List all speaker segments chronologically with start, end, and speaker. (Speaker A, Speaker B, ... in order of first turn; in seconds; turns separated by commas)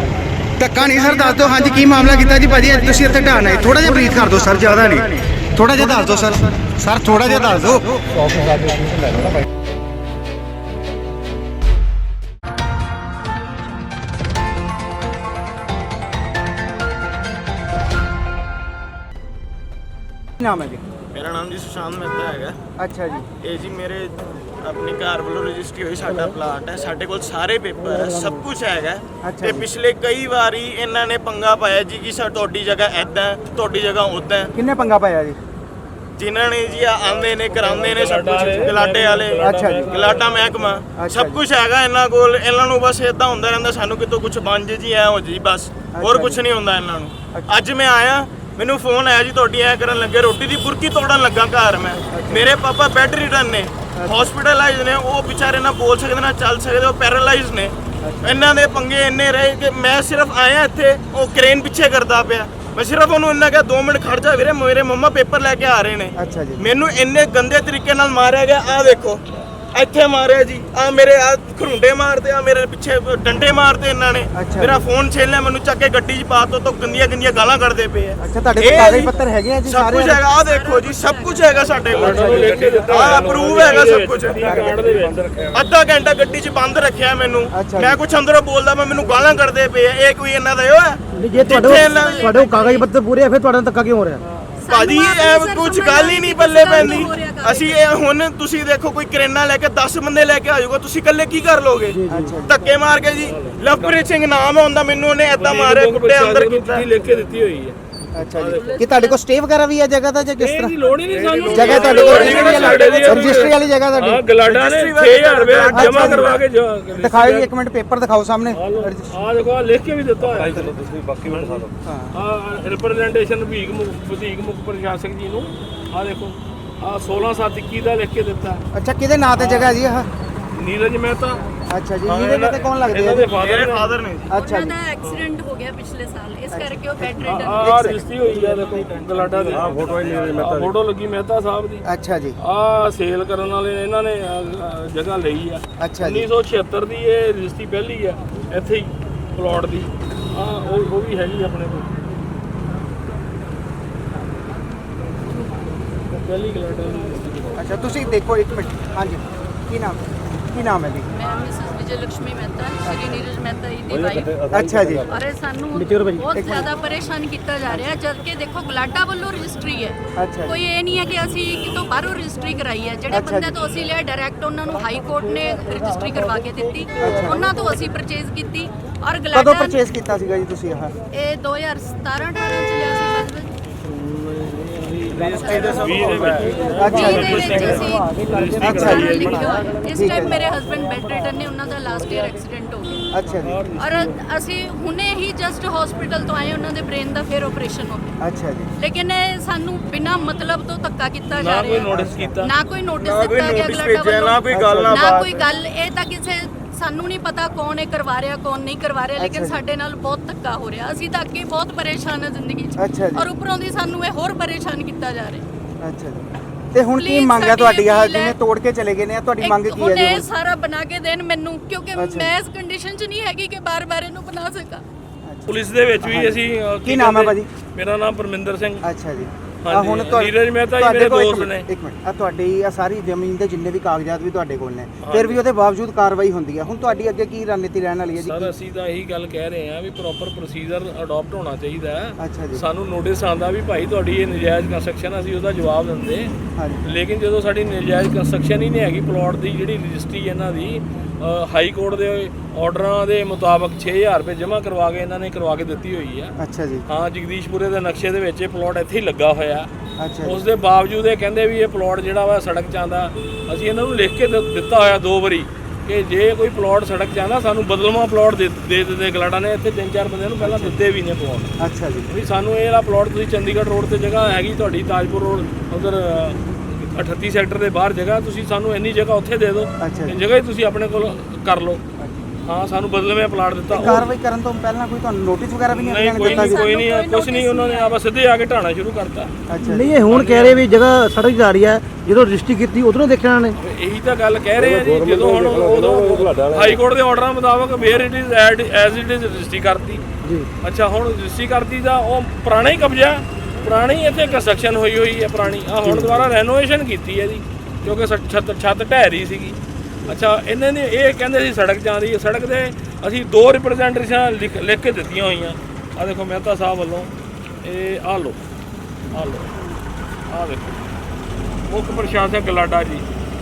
Speaker A: 0.6-8.0, Speaker B: 8.4-8.9, Speaker A: 20.4-20.8, Speaker C: 21.1-22.6, Speaker A: 22.8-23.3, Speaker C: 23.4-34.5, Speaker A: 29.2-29.7, Speaker A: 34.5-35.4, Speaker C: 36.2-79.1, Speaker D: 37.5-40.5, Speaker A: 39.4-40.0, Speaker A: 40.9-41.4, Speaker A: 45.9-46.4, Speaker A: 52.0-52.5, Speaker A: 53.9-54.3, Speaker A: 58.0-58.4, Speaker A: 66.2-66.7, Speaker A: 74.3-74.8, Speaker A: 78.2-80.2, Speaker C: 79.7-84.6, Speaker E: 80.3-82.2, Speaker D: 81.9-85.4, Speaker A: 82.0-82.7, Speaker B: 83.1-83.4, Speaker A: 84.4-84.8, Speaker C: 85.5-92.4, Speaker A: 87.5-88.0, Speaker B: 91.1-94.2, Speaker E: 91.5-92.9, Speaker E: 94.6-97.8, Speaker C: 94.7-106.9, Speaker B: 101.9-102.3, Speaker A: 102.1-102.5, Speaker D: 103.2-104.0, Speaker D: 105.3-108.7, Speaker A: 108.1-110.8, Speaker E: 108.5-109.2, Speaker D: 110.4-117.5, Speaker E: 111.2-113.0, Speaker A: 111.4-114.2, Speaker C: 111.7-113.5, Speaker C: 114.4-116.4, Speaker A: 115.7-116.4, Speaker A: 116.9-119.2, Speaker D: 118.5-128.6, Speaker A: 120.4-120.7, Speaker B: 120.4-121.7, Speaker A: 121.8-122.2, Speaker A: 128.7-130.1, Speaker D: 129.4-129.7, Speaker D: 130.5-131.4, Speaker A: 131.7-133.3, Speaker D: 132.1-133.9, Speaker C: 133.3-134.3, Speaker A: 134.3-134.8, Speaker E: 134.3-138.0, Speaker A: 136.5-138.1, Speaker D: 137.2-141.8, Speaker B: 139.6-140.7, Speaker A: 141.8-142.4, Speaker D: 142.4-151.9, Speaker A: 145.8-146.3, Speaker D: 156.1-157.5, Speaker A: 157.6-161.1, Speaker E: 161.1-164.4, Speaker A: 162.8-163.2, Speaker B: 164.0-165.0, Speaker A: 164.5-165.1, Speaker E: 165.1-179.8, Speaker B: 165.7-166.2, Speaker A: 166.3-166.7, Speaker A: 170.2-170.6, Speaker A: 173.1-173.6, Speaker A: 177.0-177.5, Speaker A: 179.3-180.9, Speaker E: 181.1-183.5, Speaker D: 183.8-189.7, Speaker E: 185.2-185.9, Speaker C: 185.3-186.5, Speaker A: 186.7-187.6, Speaker E: 186.8-193.1, Speaker A: 188.6-189.2, Speaker A: 189.8-190.4, Speaker A: 193.1-193.6, Speaker D: 193.2-194.1, Speaker E: 193.8-198.1, Speaker A: 198.2-198.7, Speaker E: 198.8-204.4, Speaker D: 201.3-202.5, Speaker A: 201.9-202.3, Speaker C: 203.0-205.3, Speaker A: 204.5-205.3, Speaker E: 204.9-215.4, Speaker A: 209.2-209.6, Speaker A: 212.8-213.3, Speaker A: 215.8-220.3, Speaker E: 217.0-218.4, Speaker E: 219.4-224.8, Speaker A: 221.9-222.3, Speaker A: 225.2-227.5, Speaker D: 225.5-228.8, Speaker A: 228.8-238.5, Speaker D: 229.6-231.7, Speaker D: 235.0-235.4, Speaker D: 238.2-246.3, Speaker A: 242.2-242.7, Speaker A: 246.6-246.8, Speaker D: 246.8-256.3, Speaker A: 256.4-256.9, Speaker D: 256.9-259.7, Speaker A: 260.0-260.5, Speaker D: 260.2-271.6, Speaker A: 270.4-270.8, Speaker A: 271.6-272.1, Speaker D: 272.1-281.8, Speaker A: 279.8-280.2, Speaker A: 282.0-282.3, Speaker D: 282.4-284.1, Speaker A: 283.7-286.6, Speaker D: 285.7-289.3, Speaker E: 286.2-287.9, Speaker A: 289.5-290.0, Speaker B: 289.7-293.6, Speaker D: 290.0-290.6, Speaker D: 293.6-300.0, Speaker B: 294.6-296.8, Speaker D: 300.6-317.1, Speaker B: 305.8-306.2, Speaker D: 317.6-318.4, Speaker D: 319.1-319.5, Speaker D: 320.3-320.8, Speaker D: 321.7-323.0